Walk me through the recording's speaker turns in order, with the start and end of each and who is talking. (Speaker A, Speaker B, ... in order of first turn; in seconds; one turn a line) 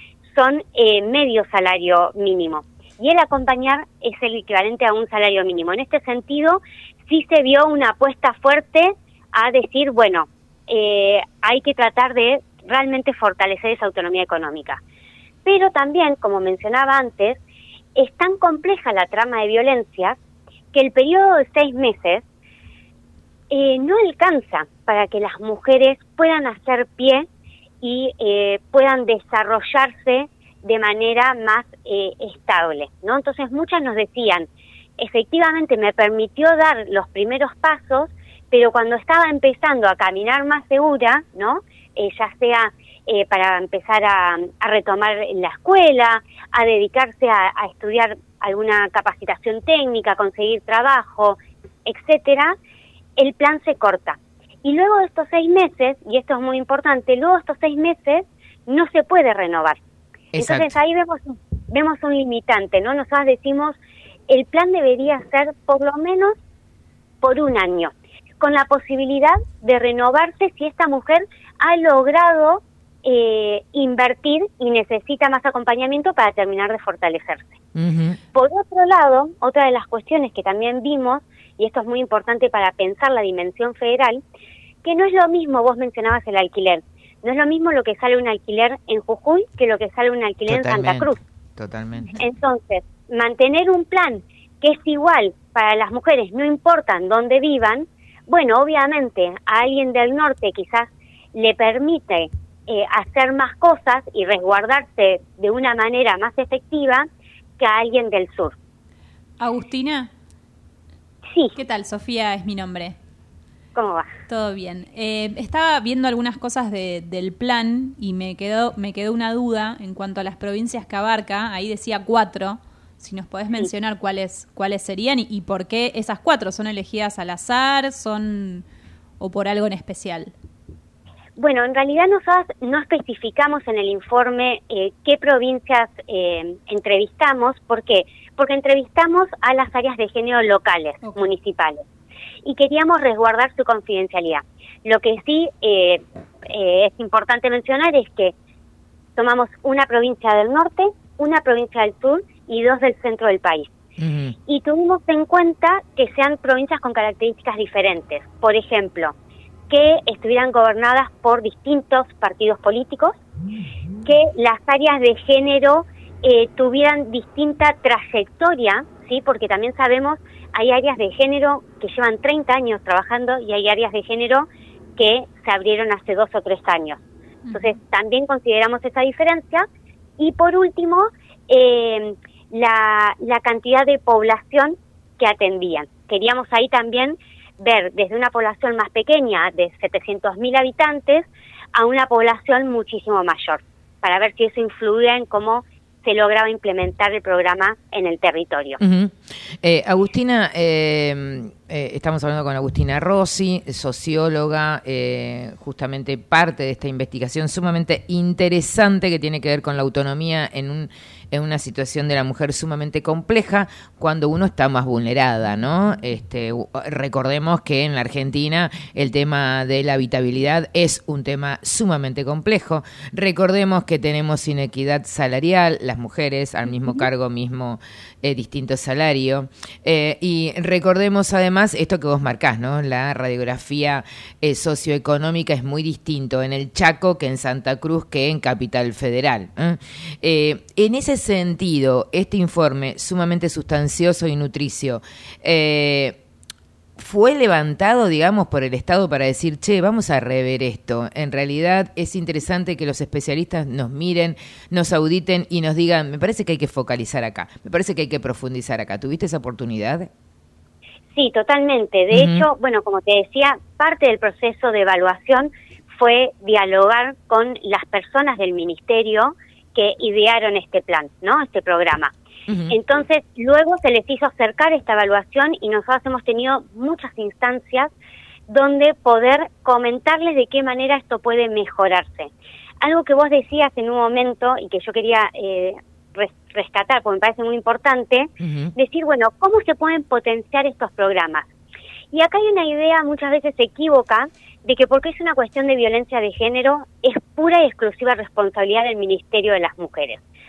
Speaker A: 0.3-14.8
Speaker A: 15.4-17.4
Speaker A: 18.0-20.2
Speaker A: 20.7-22.2
Speaker A: 23.5-27.3
Speaker A: 27.8-34.5
Speaker A: 35.0-52.6
Speaker A: 53.2-59.8
Speaker B: 60.3-60.7
Speaker A: 60.4-63.8
Speaker A: 64.3-66.3
Speaker A: 67.2-77.5
Speaker B: 77.8-78.2
Speaker A: 78.3-84.2
Speaker A: 84.8-91.2
Speaker B: 90.5-92.1
Speaker A: 92.2-107.1
Speaker A: 107.6-108.5
Speaker C: 109.4-110.1
Speaker C: 111.5-113.0
Speaker A: 113.8-114.1
Speaker C: 114.3-128.7
Speaker C: 129.2-130.3
Speaker A: 131.4-141.8
Speaker A: 142.4-148.3
Speaker A: 149.2-153.7
Speaker B: 154.0-154.4
Speaker A: 154.5-159.1
Speaker A: 159.7-163.1
Speaker A: 164.1-177.0
Speaker C: 177.4-177.8
Speaker A: 177.5-179.7
Speaker A: 180.2-198.8
Speaker B: 198.8-246.2
Speaker B: 247.0-260.1
Speaker A: 261.1-272.1
Speaker B: 262.1-262.4
Speaker B: 272.5-272.8
Speaker A: 272.7-277.9
Speaker A: 278.5-282.3
Speaker A: 282.8-291.5
Speaker B: 288.4-288.7
Speaker A: 292.1-300.2